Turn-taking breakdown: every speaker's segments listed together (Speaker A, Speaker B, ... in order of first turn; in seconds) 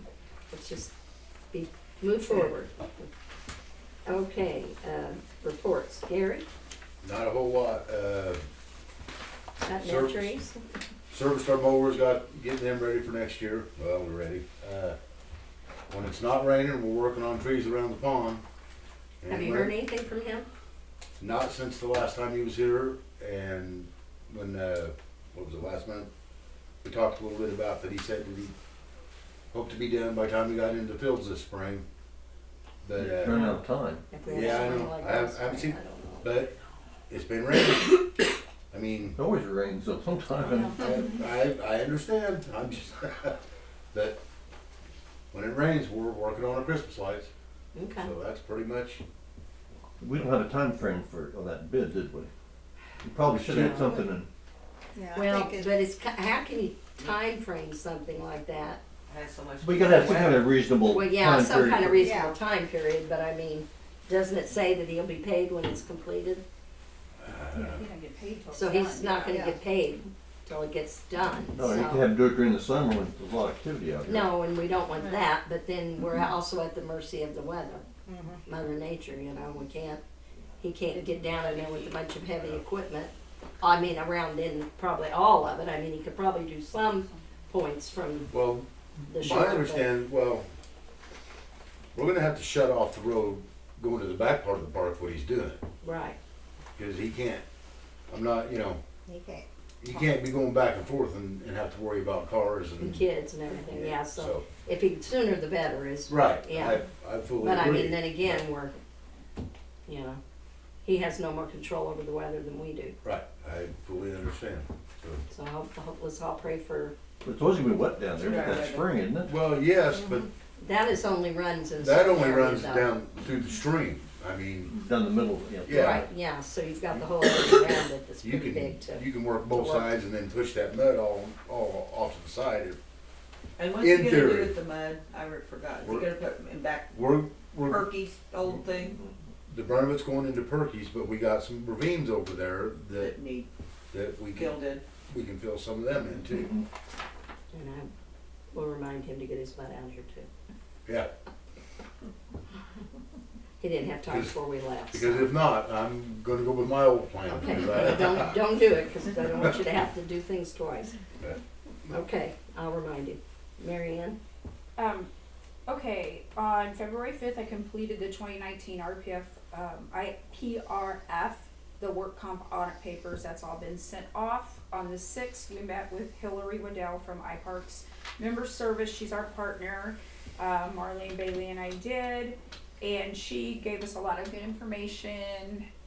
Speaker A: 0.5-0.9, 1.5-3.0, 4.0-6.5, 9.6-10.6, 19.3-20.5, 34.1-36.4, 47.7-48.1, 53.5-54.1, 55.1-58.8, 60.8-66.4, 68.5-72.1, 74.0-77.8, 78.4-80.0, 80.6-88.3, 89.1-89.9, 95.8-96.2, 102.8-106.8, 107.4-108.7, 109.8-110.2, 110.8-113.0, 115.3-116.9, 120.6-122.9, 125.7-129.9, 147.5-147.9, 148.5-150.3, 153.6-155.3, 157.3-160.9, 161.9-164.2
Speaker B: 7.0-8.4, 9.8-10.4, 11.1-15.0, 15.9-18.4, 19.2-19.8, 21.2-26.1, 26.8-28.5, 29.5-31.9, 32.8-33.6, 34.3-36.5, 37.1-38.0, 38.7-39.2, 40.4-43.4, 43.9-44.2, 45.3-47.3, 48.0-49.0, 67.2-67.8, 88.3-90.5, 91.9-95.6, 96.8-97.4, 98.1-98.8, 99.8-103.1, 103.7-104.5, 106.1-108.4, 113.0-115.2, 119.2-120.3, 121.8-124.7, 125.7-126.0, 128.2-132.8, 133.7-134.6, 135.8-136.1, 136.9-137.9, 139.5-143.2, 143.9-146.6, 154.1-154.3, 154.9-158.4
Speaker C: 33.0-34.2, 39.1-40.8, 50.0-52.3, 53.0-54.3, 59.6-62.2, 71.5-74.2, 117.2-119.3, 124.7-126.0
Speaker D: 55.0-55.7, 61.9-62.3, 69.2-69.5, 99.1-99.4
Speaker E: 59.0-60.4, 81.0-81.9, 118.2-118.8, 133.6-137.1, 137.6-139.0, 143.0-143.5, 144.3-144.8
Speaker F: 67.5-69.3, 164.8-165.1, 165.7-185.7